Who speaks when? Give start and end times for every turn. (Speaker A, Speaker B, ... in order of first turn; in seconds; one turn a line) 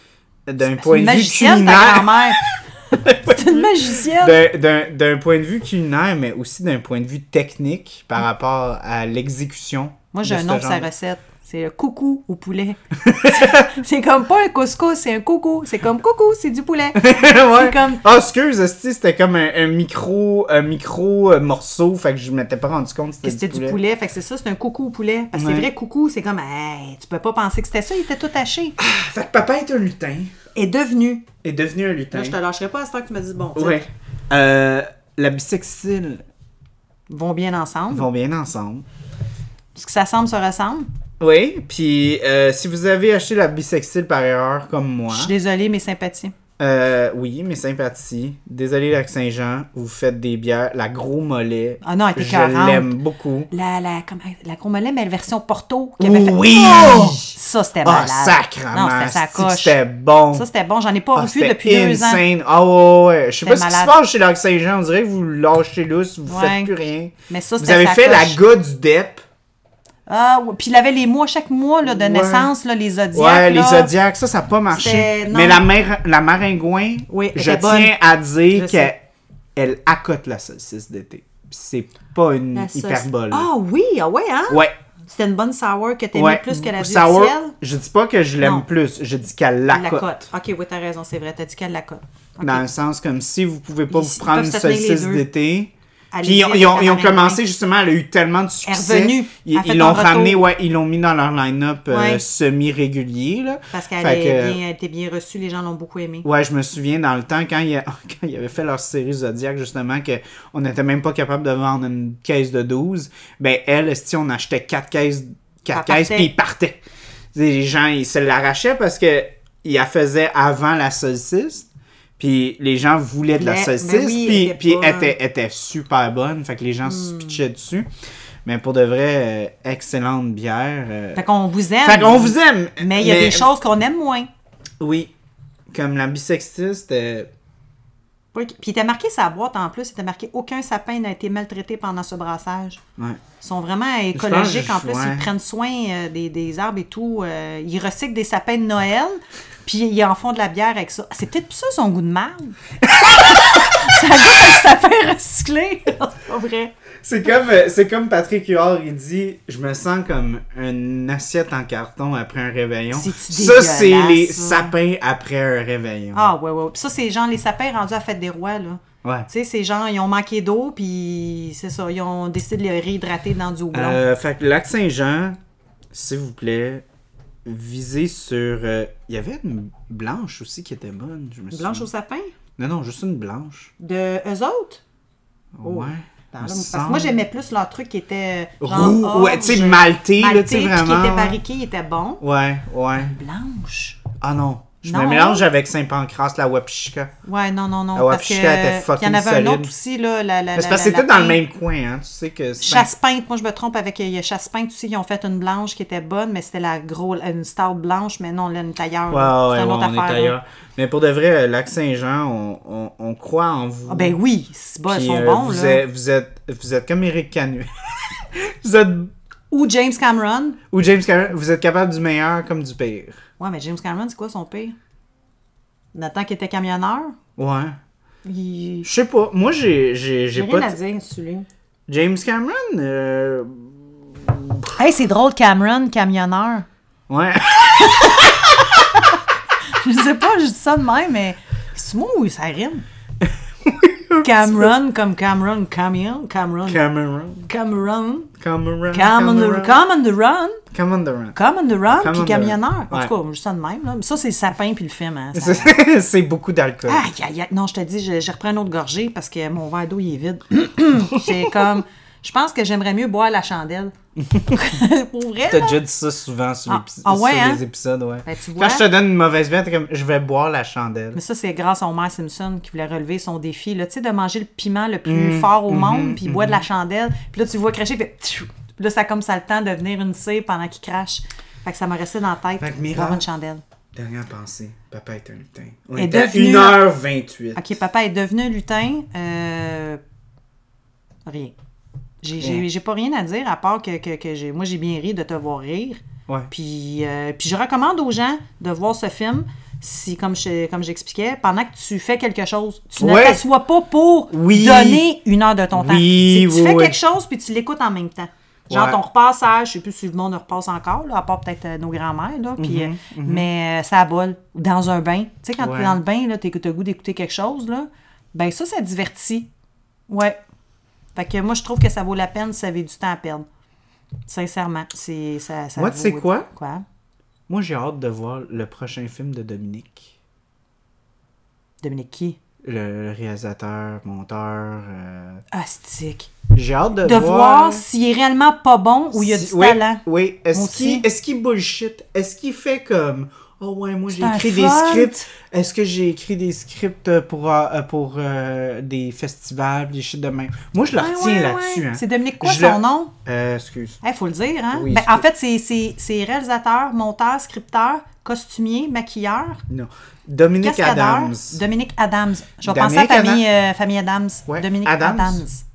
Speaker A: 0.5-10.9
Speaker B: 0.6-2.4
Speaker B: 3.2-4.4
Speaker B: 10.1-18.0
Speaker A: 13.0-13.8
Speaker A: 16.9-23.8
Speaker B: 23.2-28.8
Speaker A: 25.3-25.7
Speaker A: 28.8-30.3
Speaker B: 30.5-31.2
Speaker A: 31.4-32.4
Speaker B: 32.1-33.9
Speaker A: 33.5-36.2
Speaker B: 37.1-38.1
Speaker A: 37.9-38.9
Speaker B: 39.7-40.9
Speaker A: 41.2-45.3
Speaker B: 45.1-46.3
Speaker A: 46.6-53.5
Speaker B: 51.8-52.9
Speaker B: 53.5-59.8
Speaker A: 56.0-60.5
Speaker B: 60.3-62.2
Speaker A: 61.1-69.2
Speaker B: 63.4-63.9
Speaker B: 66.3-66.7
Speaker B: 67.3-68.4
Speaker B: 70.1-73.9
Speaker A: 71.8-72.5
Speaker A: 73.1-79.0
Speaker B: 74.7-75.6
Speaker B: 77.1-78.9
Speaker A: 79.5-83.5
Speaker B: 82.5-87.5
Speaker A: 86.1-90.2
Speaker B: 88.4-88.7
Speaker B: 89.7-92.6
Speaker A: 92.4-95.7
Speaker B: 93.9-95.2
Speaker B: 96.1-97.4
Speaker A: 96.2-104.6
Speaker B: 98.7-100.4
Speaker B: 101.9-102.2
Speaker B: 103.7-106.2
Speaker A: 106.2-116.8
Speaker B: 115.7-116.3
Speaker A: 117.3-127.9
Speaker B: 123.3-125.2
Speaker B: 126.8-127.4
Speaker A: 128.4-131.2
Speaker B: 131.1-134.3
Speaker A: 131.8-133.5
Speaker A: 134.8-135.1
Speaker A: 135.7-137.3
Speaker B: 138.3-142.8
Speaker B: 143.4-156.7
Speaker A: 144.1-145.3
Speaker A: 152.8-154.0
Speaker A: 157.0-166.3
Speaker B: 162.9-164.7
Speaker B: 166.1-174.0
Speaker A: 173.7-175.4
Speaker A: 175.9-176.8
Speaker A: 177.4-181.9
Speaker B: 181.5-182.3
Speaker A: 182.6-183.7
Speaker B: 183.8-184.8
Speaker A: 185.5-187.2
Speaker B: 185.6-192.2
Speaker A: 188.6-191.4
Speaker A: 192.2-193.1
Speaker B: 192.9-194.0
Speaker A: 194.2-197.1
Speaker B: 194.8-195.4
Speaker B: 197.2-201.4
Speaker A: 197.9-199.7
Speaker A: 200.5-202.9
Speaker B: 202.6-210.3
Speaker A: 209.1-214.1
Speaker B: 213.9-215.8
Speaker A: 214.9-219.1
Speaker B: 219.5-220.6
Speaker A: 220.7-223.2
Speaker B: 223.4-224.7
Speaker B: 225.9-227.1
Speaker A: 227.4-227.8
Speaker B: 228.2-228.9
Speaker A: 228.8-230.8
Speaker B: 230.3-231.5
Speaker A: 231.9-234.7
Speaker B: 234.7-236.7
Speaker A: 237.1-238.7
Speaker B: 237.8-239.2
Speaker B: 239.8-242.8
Speaker A: 243.2-244.7
Speaker B: 244.2-246.8
Speaker A: 246.7-247.5
Speaker B: 247.4-248.3
Speaker A: 248.4-249.8
Speaker B: 248.9-250.6
Speaker A: 250.7-251.3
Speaker B: 251.3-255.8
Speaker A: 251.9-253.1
Speaker A: 255.3-257.0
Speaker B: 256.9-263.9
Speaker A: 261.1-261.5
Speaker A: 264.2-264.6
Speaker B: 264.4-265.8
Speaker A: 265.5-271.2
Speaker B: 266.7-267.6
Speaker B: 268.2-268.9
Speaker B: 271.1-283.6
Speaker A: 275.1-276.6
Speaker A: 282.6-283.2
Speaker A: 283.9-287.6
Speaker B: 285.9-286.9
Speaker B: 287.5-290.0
Speaker B: 291.3-291.5
Speaker B: 292.2-319.5
Speaker A: 292.4-292.6
Speaker A: 303.0-303.4
Speaker A: 304.3-305.0
Speaker A: 305.7-307.0
Speaker A: 308.7-309.0
Speaker A: 312.6-313.5
Speaker A: 315.6-316.0
Speaker B: 320.1-320.4
Speaker B: 321.1-323.4
Speaker B: 324.3-326.8
Speaker A: 325.8-326.5
Speaker A: 327.5-330.1
Speaker B: 331.8-332.4
Speaker A: 332.6-335.4
Speaker B: 335.5-336.3
Speaker A: 336.5-337.8
Speaker B: 337.0-340.0
Speaker A: 339.1-354.0
Speaker B: 340.5-341.1
Speaker B: 344.1-345.3
Speaker B: 351.0-353.1
Speaker B: 354.0-359.6
Speaker A: 354.7-355.2
Speaker A: 359.7-361.6
Speaker B: 360.6-365.6
Speaker A: 362.6-363.4
Speaker A: 364.5-365.4